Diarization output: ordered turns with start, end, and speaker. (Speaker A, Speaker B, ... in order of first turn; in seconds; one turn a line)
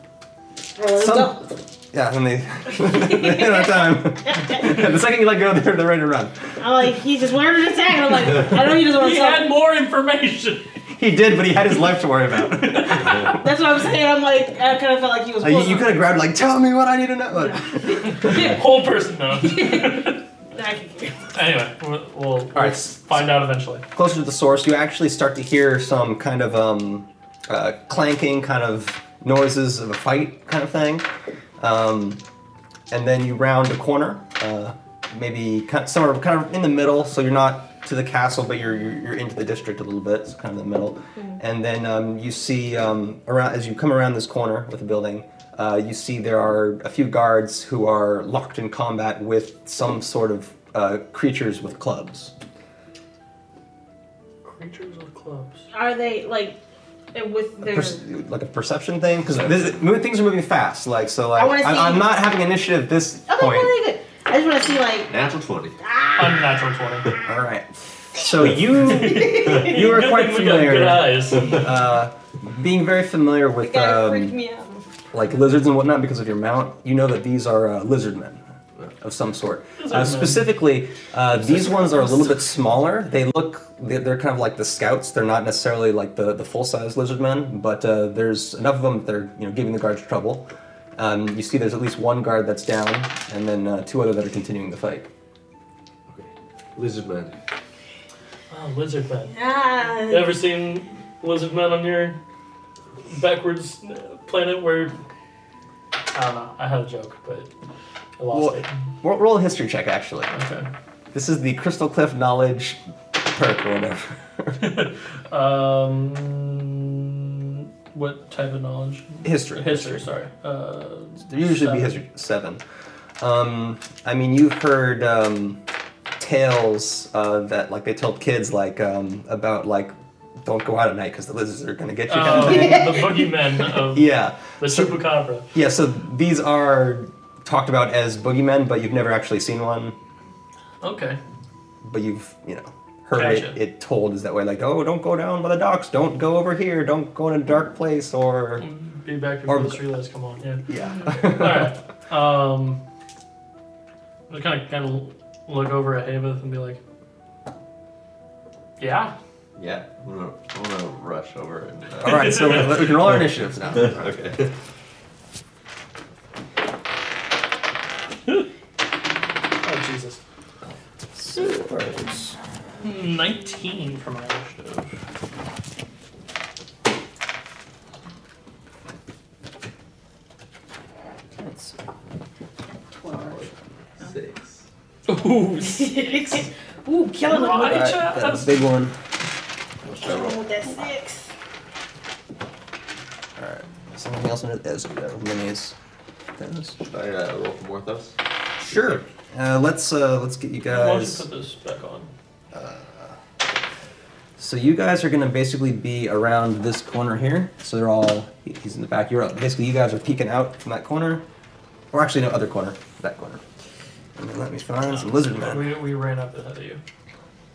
Speaker A: 0.7-1.6
Speaker B: 1.0-6.6
Speaker A: 2.7-4.7
Speaker A: 6.6-9.5
Speaker C: 8.7-10.7
Speaker B: 10.9-13.4
Speaker C: 12.4-13.4
Speaker A: 13.1-16.0
Speaker B: 15.4-18.4
Speaker A: 17.4-18.6
Speaker C: 18.0-20.2
Speaker A: 19.4-21.3
Speaker C: 21.3-23.8
Speaker B: 22.5-23.3
Speaker B: 23.9-31.1
Speaker B: 31.6-32.2
Speaker B: 32.9-52.3
Speaker C: 54.4-55.6
Speaker A: 55.7-56.6
Speaker A: 57.1-58.0
Speaker B: 57.6-63.7
Speaker A: 61.4-62.1
Speaker A: 63.3-65.1
Speaker D: 65.1-65.8
Speaker A: 65.8-66.6
Speaker C: 66.2-67.2
Speaker B: 67.2-74.3
Speaker C: 68.8-71.7
Speaker A: 69.0-69.7
Speaker A: 73.6-74.8
Speaker B: 75.1-78.4
Speaker B: 78.9-95.1
Speaker C: 79.8-80.6
Speaker D: 96.1-97.4
Speaker C: 98.5-99.4
Speaker A: 99.3-100.4
Speaker C: 100.0-102.2
Speaker C: 103.1-105.0
Speaker C: 106.1-107.5
Speaker C: 108.2-108.7
Speaker B: 108.3-110.3
Speaker C: 110.3-110.7
Speaker B: 111.1-114.6
Speaker C: 114.6-122.0
Speaker B: 119.2-120.0
Speaker B: 121.2-122.6
Speaker B: 123.2-125.6
Speaker B: 126.2-133.0
Speaker C: 132.1-135.5
Speaker A: 132.3-133.3
Speaker B: 133.9-139.9
Speaker C: 140.8-141.2
Speaker B: 141.8-148.7
Speaker C: 143.1-143.6
Speaker C: 148.6-150.6
Speaker B: 149.5-149.8
Speaker B: 150.7-151.7
Speaker A: 150.8-151.2
Speaker C: 151.2-152.8
Speaker C: 154.3-156.8
Speaker C: 158.8-159.1
Speaker D: 159.6-162.7
Speaker B: 162.0-164.1
Speaker C: 162.1-162.8
Speaker D: 163.8-164.5
Speaker C: 169.6-170.2
Speaker B: 171.1-172.4
Speaker C: 172.8-175.0
Speaker B: 181.4-181.8
Speaker A: 182.7-183.5
Speaker D: 183.2-184.6
Speaker C: 185.1-186.2
Speaker A: 185.6-187.9
Speaker C: 187.2-188.6
Speaker B: 187.4-189.0
Speaker A: 190.0-191.3
Speaker B: 190.0-190.3
Speaker B: 193.4-195.7
Speaker B: 196.4-196.8
Speaker D: 196.8-198.2
Speaker B: 198.6-201.2
Speaker C: 200.7-202.1
Speaker B: 202.5-203.1
Speaker B: 204.4-211.2
Speaker B: 211.9-213.4
Speaker B: 214.2-215.7
Speaker C: 214.9-216.8